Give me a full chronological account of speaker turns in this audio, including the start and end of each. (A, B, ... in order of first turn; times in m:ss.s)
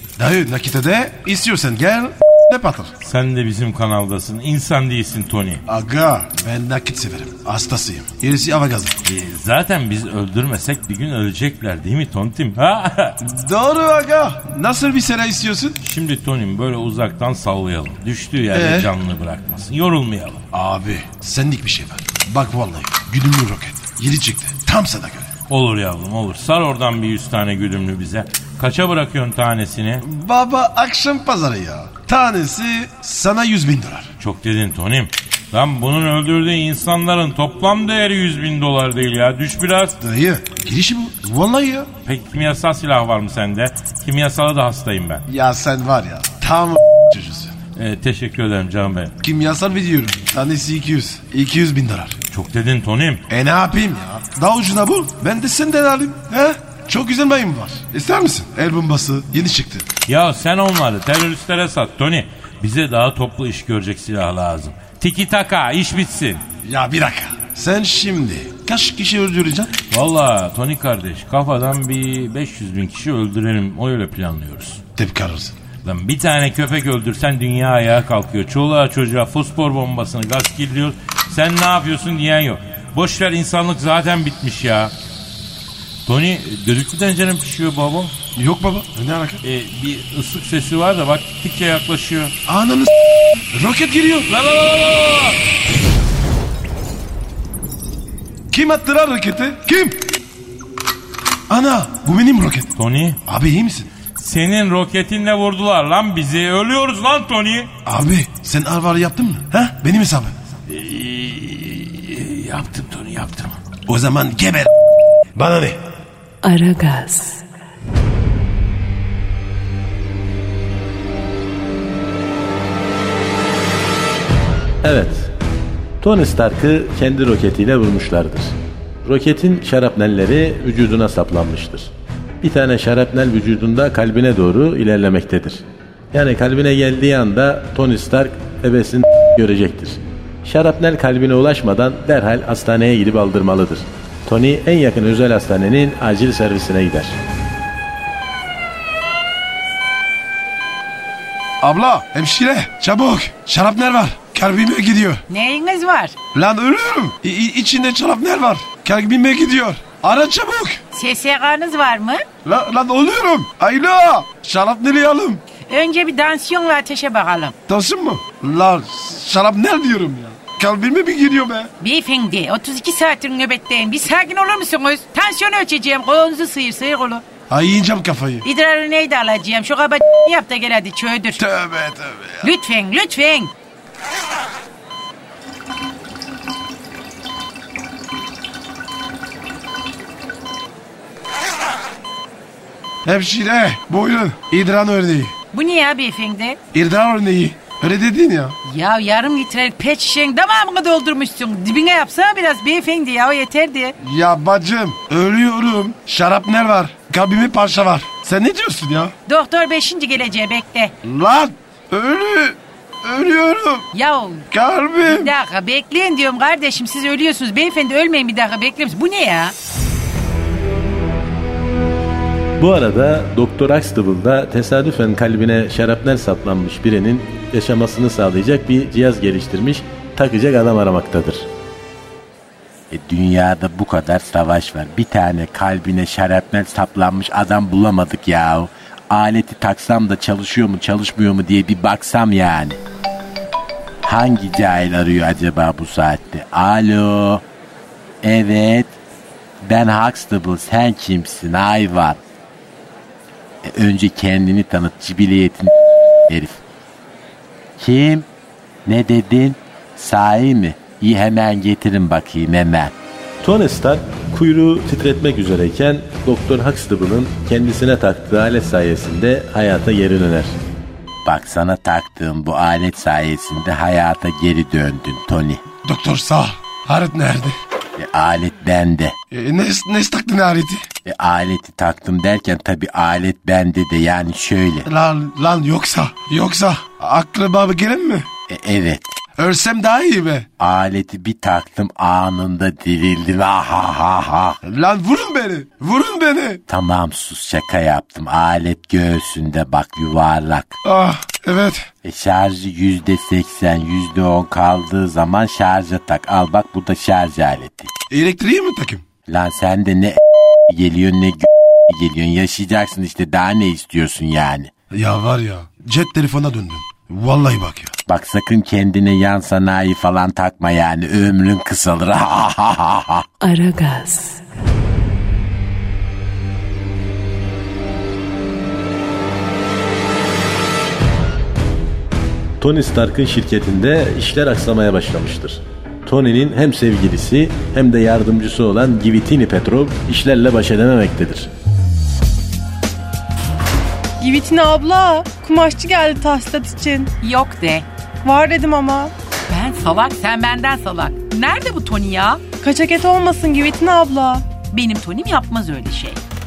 0:00.2-0:02.9 A
0:03.0-0:05.6 B
0:05.7-0:08.9 A
0:09.0-0:13.2 B
0:13.2-0:15.8 A
0:15.8-0:20.4 B
0:18.5-0:18.9 A
0:20.5-0:25.3 A
0:25.5-0:30.0 B
0:30.0-0:34.1 A
0:34.2-0:39.9 B
0:40.0-0:41.9 A
0:42.0-0:45.2 B
0:45.3-0:47.5 A
0:47.8-0:49.1 B
0:49.2-0:52.2 A
0:52.3-0:53.2 B
0:53.3-0:59.8 A
1:00.1-1:06.4 B
1:06.6-1:09.7 A
1:09.9-1:14.8 B
1:15.0-1:15.5 A
1:15.8-1:24.9 B
1:26.0-1:28.1 B
1:28.4-1:29.4 A
1:29.4-1:32.3 B
1:32.5-1:32.9 A
1:33.5-1:34.3 A
1:34.3-1:35.4 B
1:38.5-1:40.0 A
1:41.5-1:42.7 A
1:42.8-1:43.2 B
1:43.3-1:43.9 A
1:44.2-1:47.7 B
1:47.8-1:50.3 A
1:50.7-1:53.6 B
1:53.8-1:54.7 A
1:55.3-1:55.8 A
1:56.4-1:57.4 C
2:04.8-2:05.3 D
2:06.0-2:11.9 D
2:12.4-2:15.6 D
2:16.1-2:27.1 D
2:31.6-2:35.2 A
2:35.3-2:36.1 E
2:36.3-2:40.8 A
2:40.9-2:42.2 E
2:42.4-2:45.4 A
2:45.6-2:47.5 E
2:47.7-2:51.7 A
2:51.8-2:57.2 E
2:57.5-2:58.4 A
2:58.4-3:01.4 E
3:01.4-3:02.5 A
3:02.4-3:03.5 E
3:13.0-3:15.3 A
3:15.5-3:16.6 E
3:16.7-3:18.5 A
3:18.6-3:23.9 E
3:24.0-3:29.1 A
3:29.3-3:30.9 E
3:31.0-3:33.8 A
3:33.9-3:34.5 E
3:34.5-3:35.3 A
3:35.0-3:39.5 E
3:42.6-3:51.4 D
3:52.9-4:02.8 F
4:04.0-4:07.4 F
4:08.2-4:08.9 F
4:09.6-4:12.2 F
4:13.6-4:15.7 F
4:16.3-4:16.6 F
4:17.8-4:18.3 F
4:18.8-4:22.9 F
4:23.4-4:30.5 D
4:31.2-4:35.6 F
4:35.8-4:37.6 A
4:38.0-4:39.2 F
4:39.3-4:40.8 A
4:41.0-4:44.9 F
4:44.8-4:48.3 A
4:48.5-4:49.1 F
4:49.4-4:50.4 A
4:50.6-4:54.6 F
4:54.6-4:56.6 A
4:56.7-5:00.8 F
5:00.8-5:01.9 A
5:02.0-5:07.9 F
5:08.1-5:09.0 A
5:09.3-5:14.7 F
5:14.9-5:17.9 A
5:18.1-5:23.2 F
5:23.4-5:24.4 C
5:32.6-5:41.5 D
5:44.2-5:47.1 G
5:47.2-5:47.9 E
5:48.2-5:49.1 G
5:49.5-5:52.4 E
5:52.6-5:54.4 G
5:54.7-5:56.2 E